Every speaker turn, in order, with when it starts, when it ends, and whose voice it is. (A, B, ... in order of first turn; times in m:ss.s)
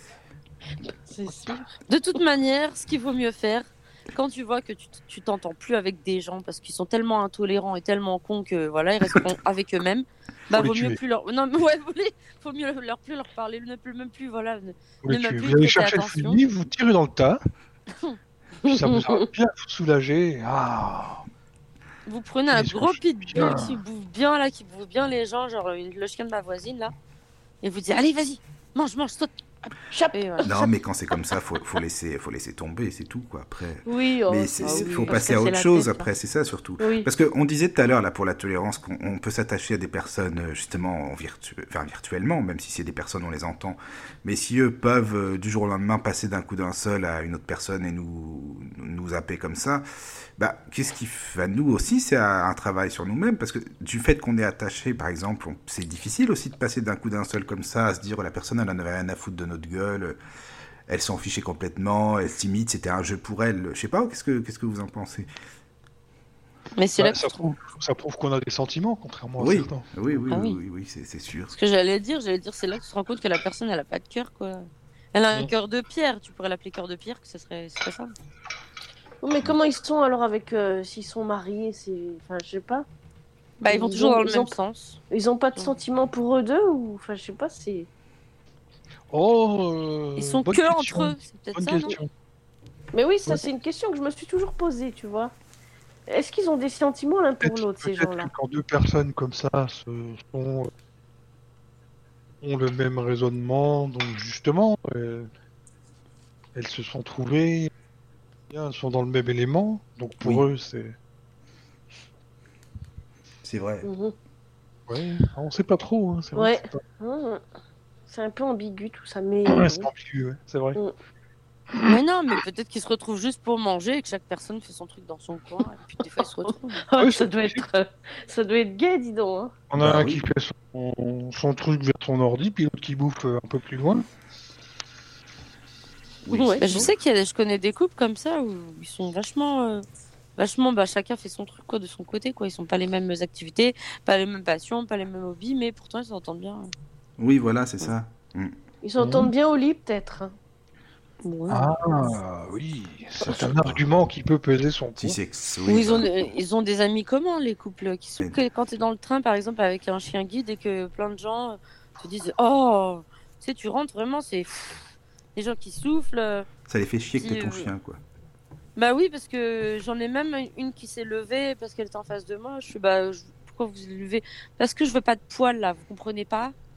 0:00.9-0:01.7 A
0:01.9-0:16.4 B
0:10.5-0:11.0 C
0:15.0-0:17.4 C
0:18.6-0:19.2 A
0:18.6-0:21.2 C
0:22.1-0:26.9 B
0:22.5-0:23.8 C
0:27.6-0:30.5 B
0:29.9-0:30.7 A
0:30.4-0:49.8 D
0:33.8-0:36.1 A
0:34.6-0:35.3 B
0:36.8-0:37.1 A
0:50.4-1:00.2 D
1:00.9-1:05.3 D
1:06.8-1:07.5 B
1:07.0-1:09.9 C
1:09.4-1:11.6 D
1:10.3-1:10.6 B
1:11.5-1:18.1 B
1:19.2-1:22.9 A
1:23.6-1:25.0 B
1:23.6-1:24.6 A
1:25.1-1:27.9 A
1:29.1-1:32.1 C
1:30.2-1:32.0 B
1:32.9-1:35.3 A
1:36.1-1:38.3 A
1:37.4-1:40.7 C
1:42.4-1:45.3 C
1:46.6-1:47.7 C
1:48.5-1:51.0 C
1:50.2-1:50.5 D
1:53.4-1:53.9 D
1:53.8-1:54.2 A
1:54.9-1:56.8 C
1:56.4-1:57.4 A
1:58.1-1:59.9 A
1:59.5-2:00.8 C
2:01.7-2:02.0 C
2:01.8-2:06.8 B
2:06.2-2:09.6 A
2:07.0-2:07.7 C
2:09.7-2:14.1 C
2:09.8-2:10.2 D
2:16.3-2:17.0 D
2:16.3-2:16.9 A
2:16.6-2:19.8 B
2:20.4-2:26.7 B
2:27.2-2:28.6 D
2:28.8-2:30.4 A
2:29.0-2:29.3 C
2:31.2-2:31.7 B
2:31.5-2:35.2 C
2:33.2-2:33.8 D
2:35.0-2:36.2 D
2:35.7-2:44.8 B
2:45.4-2:46.5 B
2:46.7-2:48.0 D
2:47.2-2:47.7 B
2:48.8-2:56.6 B